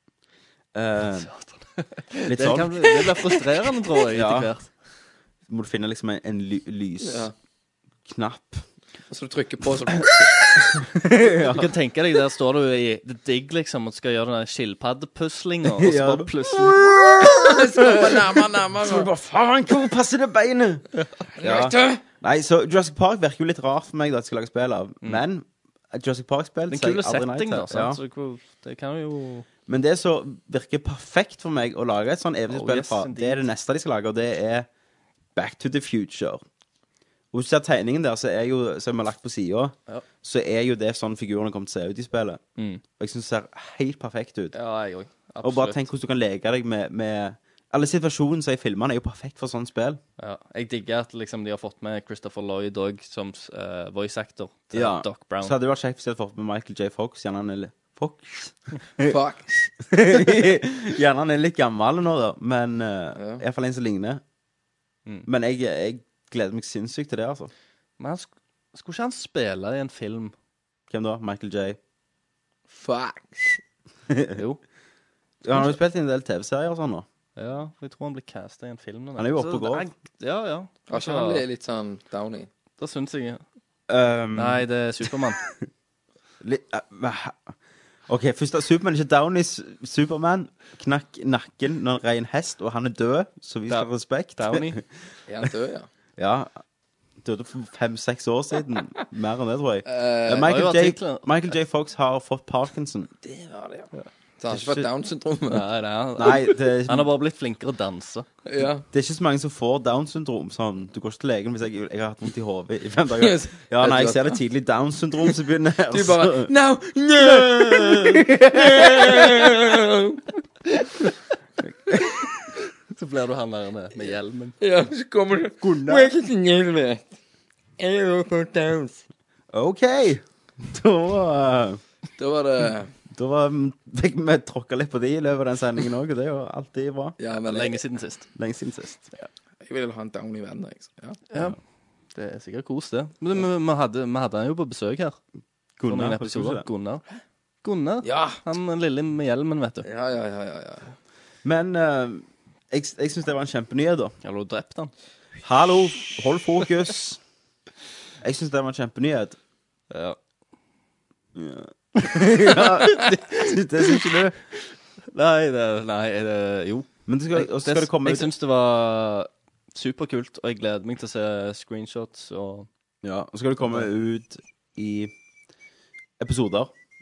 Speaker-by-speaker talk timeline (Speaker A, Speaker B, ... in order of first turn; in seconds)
Speaker A: 0.7-1.3, 2.2-3.1, 4.1-4.5, 5.5-7.3, 8.1-8.6, 10.7-11.7, 15.8-18.2, 18.7-20.9, 21.4-28.0, 29.7-34.7, 35.4-36.4, 37.3-42.4, 43.0-44.5, 45.4-50.0, 54.7-59.1, 59.9-64.2, 65.2-67.5, 70.9-71.8, 74.1-74.4, 75.4-77.0, 79.2-79.9, 83.9-84.7, 86.4-87.5, 88.1-94.8, 96.2-96.5, 97.2-103.1, 104.5-104.9, 106.2-107.1, 108.9-116.5, 117.2-119.2, 121.9-122.2, 129.5-131.8, 133.1-137.2, 138.3-139.1, 145.8-146.7, 151.4-154.1, 155.4-157.2, 158.2-159.4, 161.3-164.4, 167.1-168.3, 173.0-175.1, 176.2-176.7
Speaker B: 1.3-4.7, 11.4-16.8, 26.7-29.5, 32.5-33.4, 44.5-45.8, 50.2-55.5, 68.0-70.3, 74.3-74.6, 77.4-81.4, 82.8-83.4, 84.3-85.4, 93.7-94.8, 100.3-101.5, 105.5-108.3, 122.9-124.5, 125.6-126.1, 137.4-138.3, 141.3-141.6, 142.1-145.2, 145.8-147.0, 147.6-149.8, 154.2-154.9, 159.9-160.2, 162.5-164.0, 165.1-172.7
Speaker C: 7.0-7.3, 9.1-10.2, 17.2-19.1, 21.4-22.0, 59.1-59.7, 63.1-63.4, 72.7-73.6, 80.9-82.5, 95.3-95.9, 99.8-100.5, 103.2-105.6, 108.5-108.8, 113.2-114.4, 115.9-120.2, 120.8-121.1, 124.6-127.0, 127.8-129.0, 132.2-132.9, 137.2-137.8, 139.6-141.2, 148.0-148.4, 149.8-150.9